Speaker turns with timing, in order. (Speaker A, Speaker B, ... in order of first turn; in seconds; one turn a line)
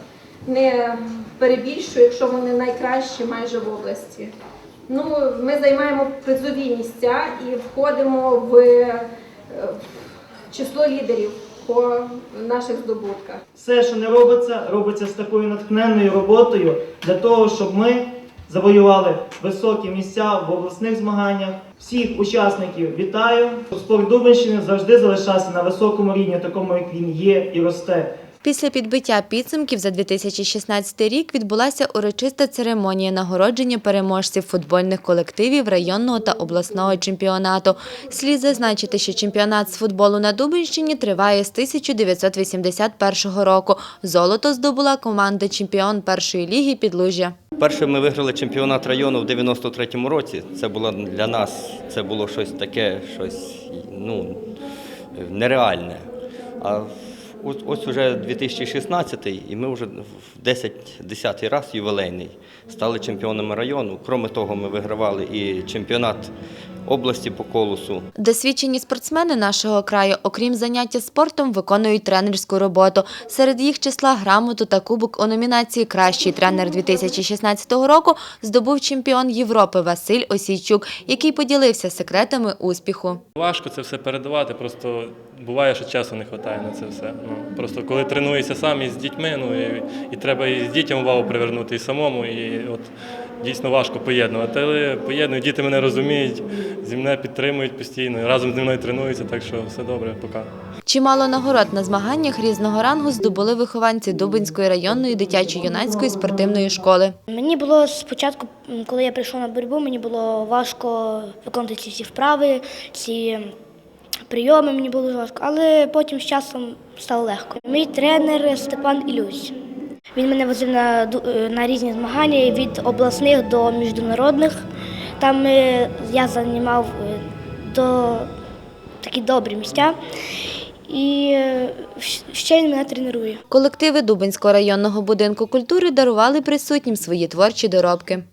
Speaker A: 0.4-4.3
Speaker A: 4.9-9.9
Speaker A: 10.5-13.4
Speaker B: 13.6-28.1
Speaker C: 28.4-47.3
Speaker D: 47.6-54.5
Speaker D: 55.1-56.1
Speaker D: 56.6-56.9
Speaker D: 57.4-66.3
Speaker D: 66.9-68.1
Speaker C: 68.2-83.2
Speaker E: 83.4-92.9
Speaker E: 93.4-100.5
Speaker C: 100.8-107.2
Speaker F: 107.3-113.5
Speaker F: 114.3-119.5
Speaker F: 120.1-124.6
Speaker F: 125.2-128.3
Speaker F: 129.0-129.9
Speaker F: 130.9-133.4
Speaker C: 133.5-138.2